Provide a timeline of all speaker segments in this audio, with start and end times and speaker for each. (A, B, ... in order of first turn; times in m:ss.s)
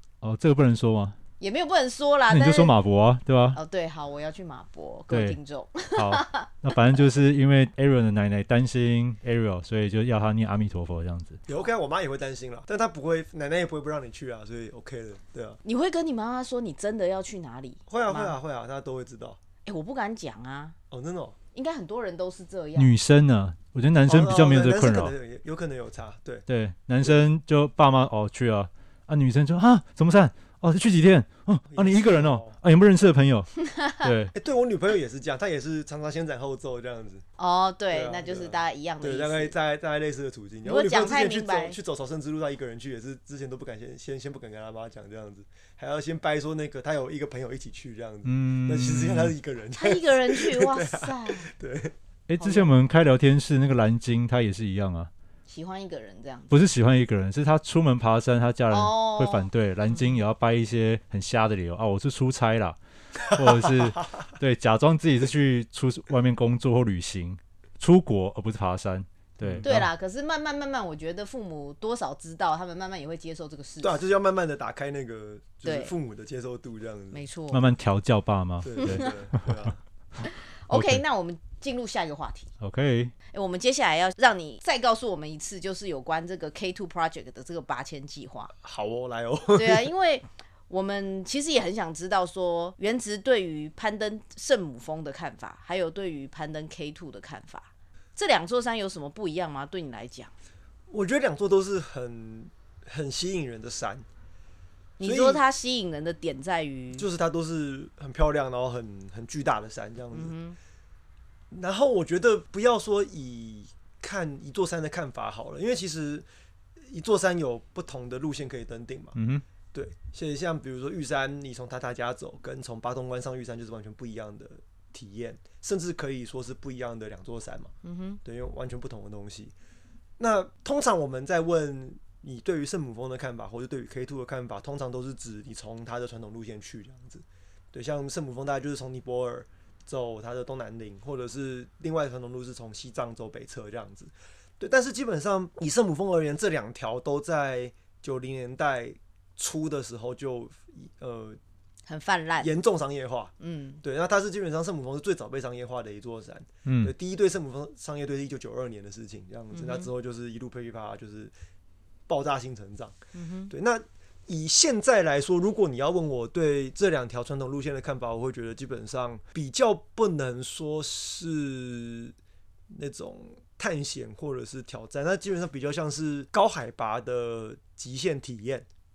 0:00.2-0:01.2 A
0:01.4-0:02.7 B
0:02.3-0:03.6 A
0:03.5-0:06.5 B
0:05.1-0:05.4 A
0:05.9-0:11.4 A
0:11.5-0:15.6 C
0:15.6-0:18.3 B
0:17.9-0:19.4 C
0:19.6-0:20.8 B
0:20.9-0:21.4 C
0:21.5-0:22.9 B
0:22.8-0:25.1 A
0:24.0-0:26.5 C
0:26.5-0:34.3 A
0:31.7-0:32.6 C
0:33.6-0:34.1 B
0:34.3-0:37.2 C
0:37.4-0:39.5 B
0:37.9-0:51.9 C
0:40.6-0:41.8 B
0:48.2-0:49.3 A
0:49.7-0:51.5 B
0:52.3-0:55.1 A
0:52.4-0:52.7 B
0:55.5-0:56.5 B
0:56.5-1:09.9 A
0:58.7-1:00.2 B
1:03.4-1:03.7 C
1:09.4-1:09.7 C
1:09.6-1:14.0 B
1:13.8-1:17.2 C
1:15.6-1:15.9 B
1:17.1-1:17.6 B
1:17.5-1:19.7 A
1:18.6-1:19.8 C
1:18.8-1:19.1 B
1:20.2-1:22.5 B
1:20.7-1:21.0 A
1:22.6-1:23.1 A
1:23.3-1:28.5 B
1:28.6-1:29.9 C
1:29.5-1:40.3 B
1:40.9-1:44.0 C
1:45.0-1:47.0 B
1:45.0-1:45.4 C
1:47.0-1:50.3 C
1:50.1-1:50.6 B
1:51.5-1:56.2 C
1:56.8-1:59.2 C
1:59.2-1:59.4 A
1:59.7-2:07.7 C
2:07.8-2:08.2 B
2:08.2-2:09.5 C
2:10.2-2:31.4 C
2:31.9-2:32.5 B
2:32.4-2:33.3 C
2:33.4-2:33.8 B
2:33.8-2:41.3 C
2:36.6-2:36.9 A
2:39.5-2:39.9 B
2:42.1-2:43.0 C
2:43.1-2:43.5 B
2:43.5-2:52.2 C
2:52.7-2:58.6 C